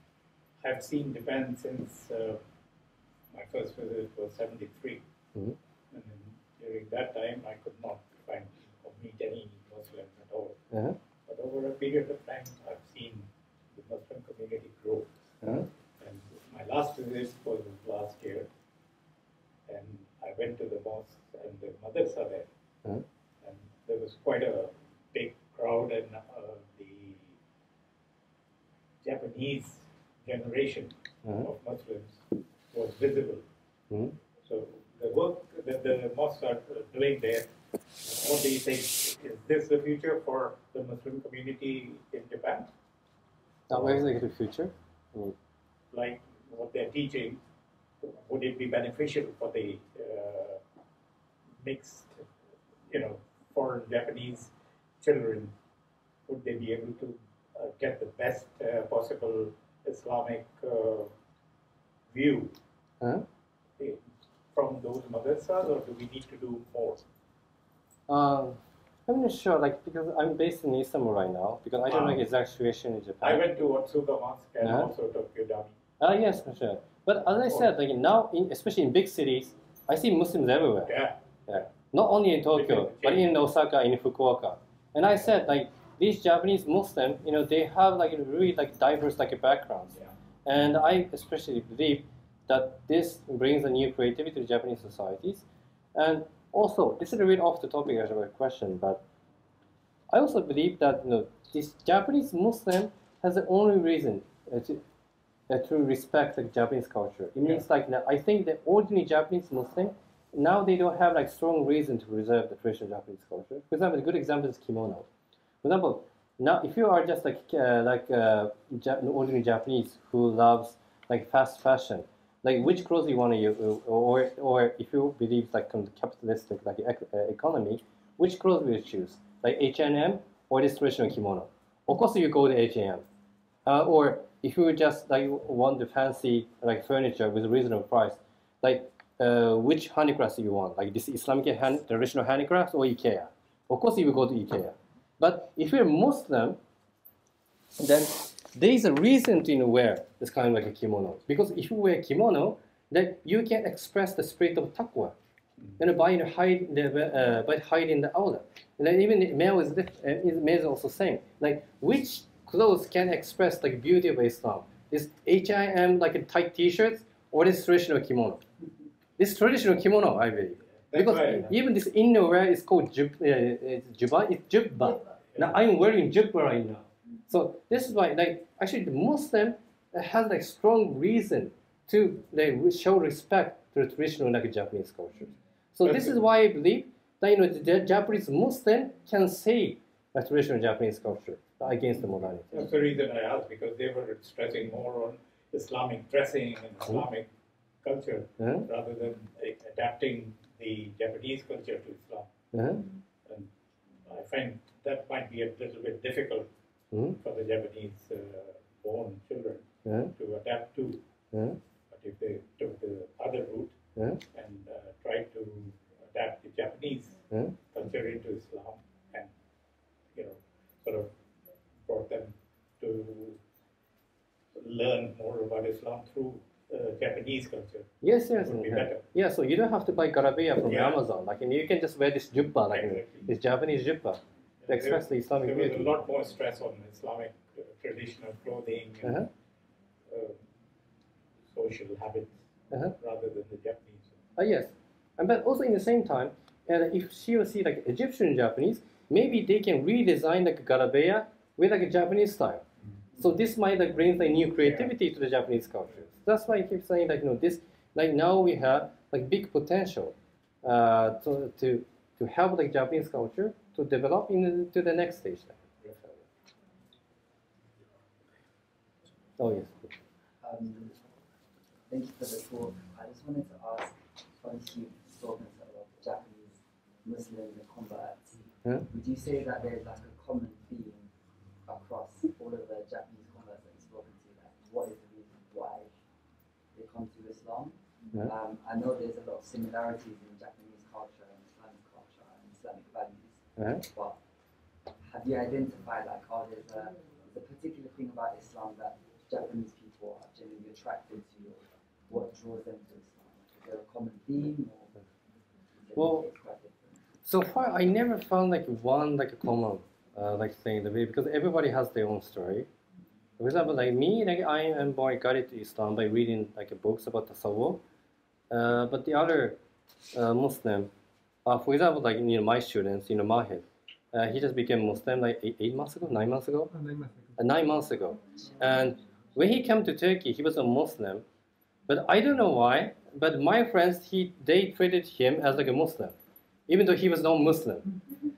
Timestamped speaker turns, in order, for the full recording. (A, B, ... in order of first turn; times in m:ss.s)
0:00.6-0:02.4 A
0:03.3-0:05.0 A
0:05.9-0:10.6 A
0:10.7-0:11.0 B
0:11.3-0:15.1 A
0:15.4-0:15.7 B
0:16.0-0:18.5 A
0:19.7-0:22.5 A
0:23.4-0:27.3 A
0:29.0-0:33.4 A
0:31.2-0:31.5 B
0:34.4-0:42.7 A
0:43.7-0:45.3 B
0:43.7-0:44.0 A
0:45.9-0:47.4 A
0:48.0-0:50.6 A
0:51.6-0:52.2 A
0:52.9-0:55.5 A
0:56.3-1:01.1 A
1:02.1-1:02.5 A
1:03.0-1:03.2 B
1:03.8-1:07.0 A
1:08.1-1:13.4 B
1:11.8-1:12.2 A
1:13.2-1:15.7 A
1:14.6-1:14.9 B
1:16.0-1:20.9 B
1:20.8-1:21.7 A
1:21.5-1:29.9 B
1:22.5-1:23.4 A
1:30.4-1:39.0 B
1:40.1-1:44.8 B
1:45.5-1:55.1 B
1:55.6-2:13.0 B
2:13.6-2:26.6 B
2:27.8-2:35.2 B
2:35.8-2:48.4 B
2:49.2-3:12.5 B
2:50.9-2:51.5 A
3:05.8-3:06.1 A
3:12.5-3:17.3 A
3:17.8-3:22.3 A
3:18.4-3:18.7 B
3:22.5-3:22.8 B
3:24.0-3:26.5 A
3:26.9-3:27.2 B
3:27.2-3:31.0 A
3:29.8-3:30.1 B
3:31.3-3:31.6 B
3:31.9-3:33.7 A
3:34.0-3:34.2 B
3:34.3-3:37.2 A
3:37.7-3:39.3 A
3:40.1-3:41.1 A
3:41.8-3:43.4 A
3:44.5-3:47.9 A
3:48.0-3:56.0 B
3:48.4-3:49.0 A
3:50.6-3:51.0 A
3:52.7-3:53.3 A
3:54.6-3:59.3 A
3:59.0-3:59.3 B
4:00.1-4:00.4 A
4:01.5-4:02.3 A
4:02.9-4:04.1 A
4:04.4-4:12.6 B
4:13.2-4:26.2 B
4:29.4-4:29.9 B
4:30.4-4:30.9 C
4:31.9-4:41.1 C
4:41.7-4:45.9 C
4:46.7-4:54.2 C
4:53.6-4:53.8 B
4:55.0-5:05.0 C
5:05.8-5:07.0 C
5:06.0-5:06.3 B
5:07.2-5:12.7 B
5:13.4-5:17.8 B
5:18.5-5:19.6 B
5:20.1-5:20.9 B
5:21.4-5:26.7 B
5:27.4-5:31.2 B
5:31.9-5:36.1 B
5:36.7-5:37.9 B